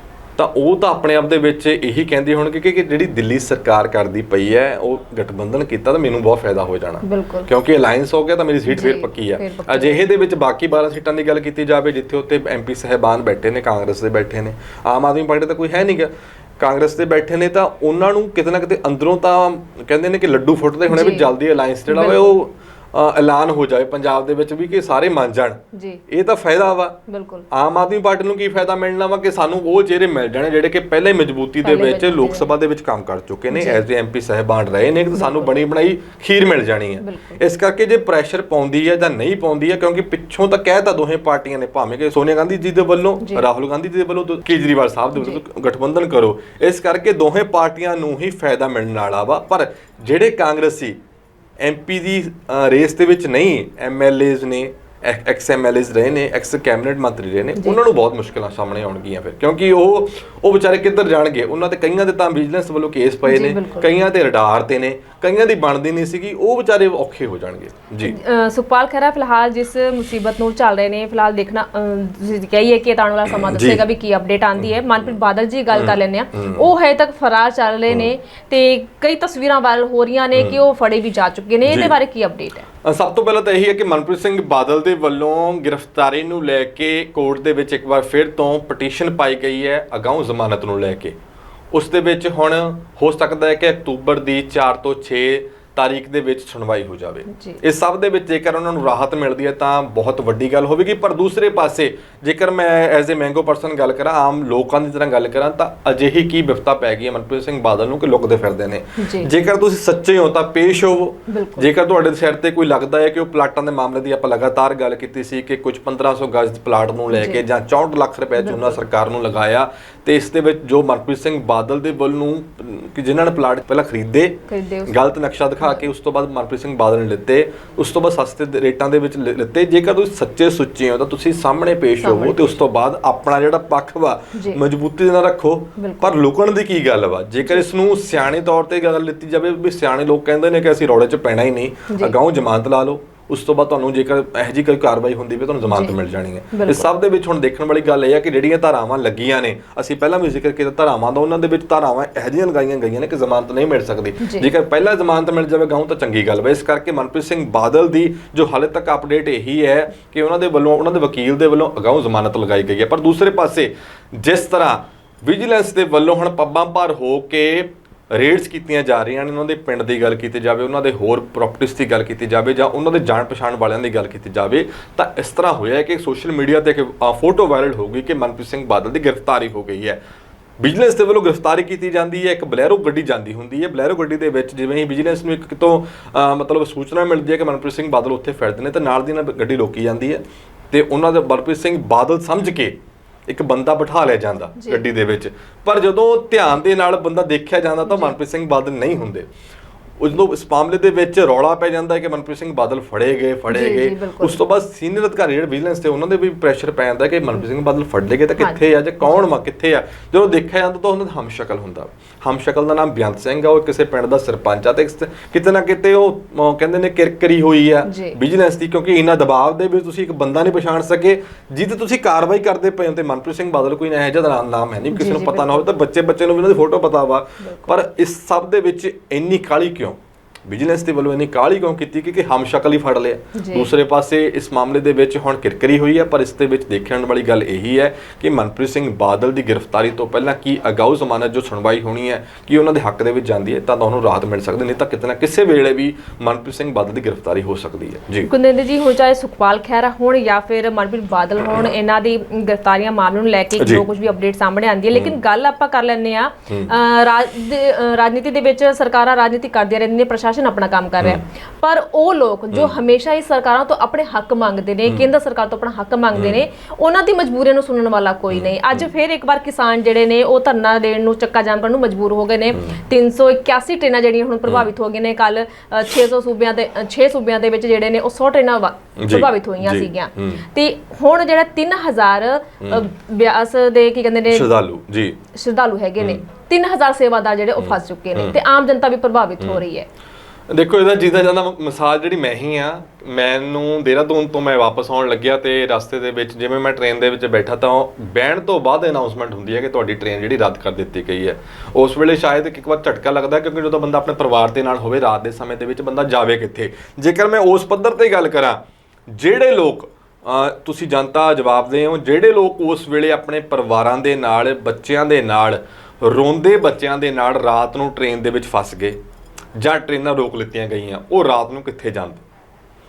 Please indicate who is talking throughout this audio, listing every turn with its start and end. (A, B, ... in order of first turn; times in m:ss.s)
0:00.4-0:25.6 A
0:07.0-0:07.5 B
0:08.7-0:10.0 B
0:20.9-0:21.3 B
0:21.9-0:22.3 B
0:25.7-0:26.0 B
0:26.1-0:27.0 A
0:27.1-0:27.5 B
0:27.5-0:51.0 A
0:31.6-0:32.5 B
0:33.5-0:33.8 B
0:35.1-0:35.6 B
0:37.0-0:37.4 B
0:43.2-0:43.5 B
0:45.2-0:45.4 B
0:51.6-1:08.2 A
0:57.6-0:57.8 B
1:03.3-1:03.9 B
1:08.0-1:22.7 B
1:13.3-1:13.8 A
1:14.6-1:15.0 A
1:15.7-1:16.7 A
1:21.7-1:21.9 A
1:22.8-1:31.1 A
1:31.7-3:00.0 A
1:37.3-1:37.6 B
1:49.0-1:49.3 B
1:51.3-1:51.7 B
1:57.1-1:57.4 B
1:58.4-1:58.8 B
2:04.5-2:05.0 B
2:12.0-2:12.6 B
2:14.3-2:14.6 B
2:15.8-2:16.2 B
2:25.7-2:26.0 B
2:26.5-2:26.8 B
2:34.2-2:34.5 B
3:00.6-3:12.8 A
3:13.3-3:19.3 A
3:14.6-3:14.8 B
3:17.9-3:18.2 B
3:20.0-4:08.3 A
3:23.5-3:24.4 B
3:28.4-3:29.3 B
3:37.9-3:38.2 B
3:44.9-3:45.7 B
3:47.4-3:47.8 B
3:53.4-3:53.7 B
4:08.3-4:44.5 B
4:13.6-4:13.8 A
4:14.9-4:15.2 A
4:16.5-4:16.7 A
4:22.5-4:22.8 A
4:26.1-4:26.4 A
4:28.3-4:28.8 A
4:32.5-4:32.8 A
4:39.0-4:40.4 A
4:44.3-4:45.2 A
4:45.3-4:49.9 B
4:47.6-4:48.4 A
4:50.5-5:19.0 A
5:19.6-5:22.2 A